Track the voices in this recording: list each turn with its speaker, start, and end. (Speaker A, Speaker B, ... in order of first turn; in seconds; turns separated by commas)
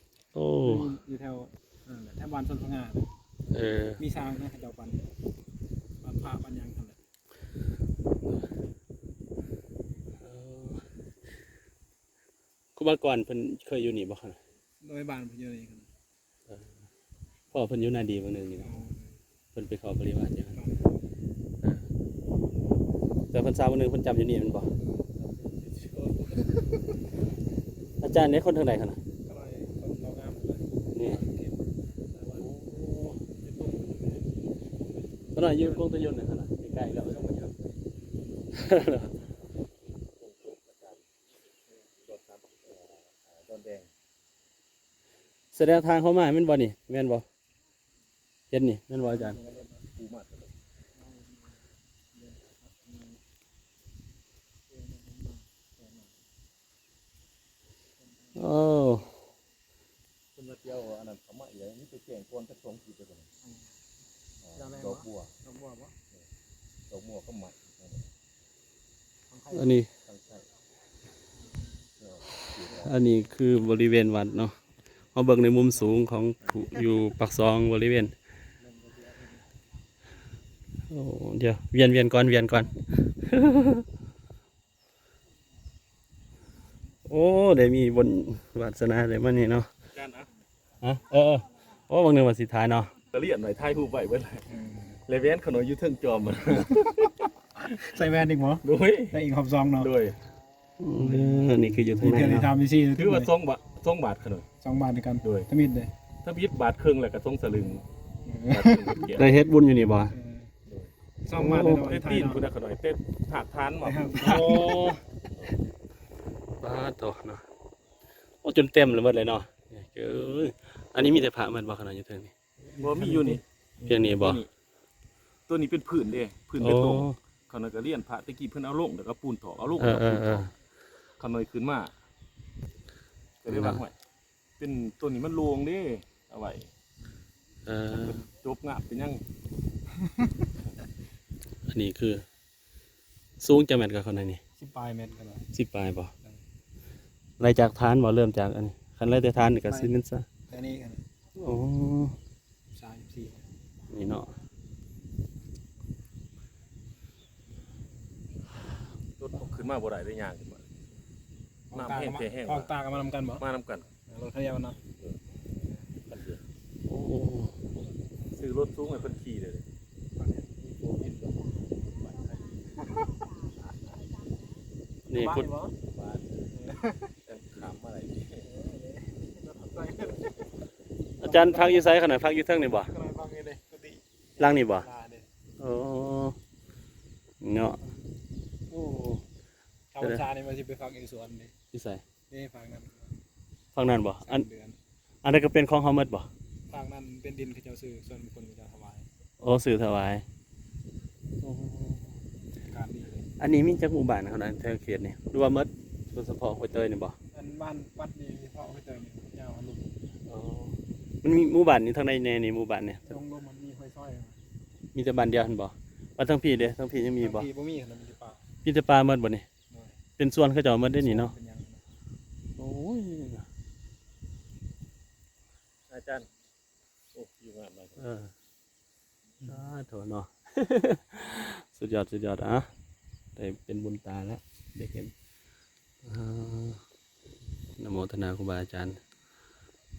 Speaker A: 0.3-0.9, Speaker B: 0.6-3.1, Speaker A: 3.5-4.0, Speaker B: 4.0-5.1, Speaker B: 6.0-7.0, Speaker A: 10.2-10.8, Speaker A: 12.8-14.4, Speaker B: 14.8-15.9, Speaker A: 17.5-18.8, Speaker B: 18.6-19.1, Speaker A: 19.5-20.5, Speaker B: 20.5-21.0, Speaker A: 23.3-24.7, Speaker B: 24.8-25.1, Speaker C: 25.3-26.4, Speaker A: 28.0-29.0, Speaker B: 29.2-31.6, Speaker A: 30.9-31.2, Speaker B: 32.1-32.4, Speaker A: 32.3-33.2, Speaker B: 33.5-34.1, Speaker C: 33.6-34.0, Speaker A: 35.4-37.3, Speaker B: 37.0-37.7, Speaker C: 37.1-37.5, Speaker A: 38.5-39.1, Speaker C: 40.2-41.0, Speaker C: 42.0-43.9, Speaker A: 45.5-47.2, Speaker A: 48.5-49.4, Speaker B: 49.0-49.8, Speaker C: 49.9-50.5, Speaker B: 51.0-51.5, Speaker B: 52.1-53.2, Speaker B: 54.7-56.1, Speaker B: 58.0-58.5, Speaker A: 58.4-59.1, Speaker C: 60.4-63.3, Speaker B: 63.4-63.7, Speaker C: 64.4-65.3, Speaker B: 64.6-66.0, Speaker C: 66.9-68.1, Speaker B: 69.3-69.8, Speaker A: 69.5-69.9, Speaker C: 70.1-70.5, Speaker C: 72.0-73.0, Speaker A: 72.7-74.6, Speaker A: 75.1-78.1, Speaker C: 76.5-76.7, Speaker B: 78.6-79.4, Speaker A: 80.9-83.9, Speaker A: 87.1-89.7, Speaker C: 89.9-90.3, Speaker A: 90.8-92.9, Speaker C: 93.1-94.5, Speaker B: 94.5-95.0, Speaker C: 95.1-97.3, Speaker B: 97.6-99.9, Speaker C: 98.6-99.2, Speaker C: 99.8-100.2, Speaker A: 100.8-102.5, Speaker B: 101.0-103.3, Speaker C: 103.0-104.5, Speaker B: 104.6-105.9, Speaker C: 105.2-105.5, Speaker C: 106.2-107.8, Speaker B: 108.2-109.0, Speaker C: 108.5-109.3, Speaker A: 109.1-110.1, Speaker B: 110.1-110.5, Speaker C: 110.7-114.4, Speaker B: 111.2-112.5, Speaker A: 111.5-111.8, Speaker B: 113.8-115.0, Speaker A: 114.2-115.0, Speaker A: 116.6-117.4, Speaker A: 118.4-122.3, Speaker B: 122.7-123.9, Speaker C: 122.8-123.4, Speaker A: 123.8-124.4, Speaker C: 124.0-124.5, Speaker C: 125.5-130.5, Speaker A: 126.6-127.2, Speaker A: 129.8-130.5, Speaker C: 131.2-131.9, Speaker C: 133.4-133.9, Speaker A: 133.5-133.8, Speaker C: 134.6-136.7, Speaker A: 137.7-138.2, Speaker C: 138.0-139.2, Speaker A: 141.7-142.2, Speaker A: 143.4-144.4, Speaker B: 144.6-145.5, Speaker A: 145.5-146.1, Speaker A: 147.4-150.2, Speaker B: 149.7-149.9, Speaker B: 150.5-151.1, Speaker A: 151.4-152.2, Speaker B: 152.7-153.5, Speaker A: 153.9-154.3, Speaker C: 159.2-160.7, Speaker B: 161.7-163.4, Speaker C: 161.7-163.9, Speaker B: 164.1-164.8, Speaker C: 166.1-166.4, Speaker A: 166.9-167.5, Speaker C: 168.3-169.7, Speaker B: 170.2-171.5, Speaker B: 172.7-173.2, Speaker A: 175.1-175.5, Speaker B: 175.1-175.8, Speaker C: 175.9-176.4, Speaker B: 176.5-177.1, Speaker C: 177.3-178.5, Speaker B: 178.4-180.5, Speaker B: 181.2-182.0, Speaker A: 181.2-182.9, Speaker B: 182.7-185.3, Speaker A: 184.4-184.9, Speaker A: 185.6-186.4, Speaker A: 187.4-187.8, Speaker B: 188.7-189.2, Speaker B: 189.9-191.5, Speaker A: 191.7-192.0, Speaker B: 192.3-193.1, Speaker A: 193.8-194.5, Speaker B: 194.2-194.8, Speaker A: 195.2-196.3, Speaker B: 196.7-199.1, Speaker A: 199.4-200.2, Speaker A: 201.4-202.2, Speaker B: 202.7-203.3, Speaker A: 203.4-207.2, Speaker B: 207.3-209.9, Speaker A: 210.3-213.2, Speaker B: 213.1-214.4, Speaker A: 214.9-217.5, Speaker B: 217.2-218.4, Speaker A: 218.6-219.5, Speaker B: 219.7-220.0, Speaker A: 220.2-221.3, Speaker B: 221.0-221.8, Speaker A: 222.6-223.4, Speaker C: 225.9-226.3, Speaker C: 227.1-228.1, Speaker A: 228.0-228.3, Speaker A: 229.4-232.7, Speaker A: 233.4-235.1, Speaker A: 236.1-236.8, Speaker A: 237.8-239.0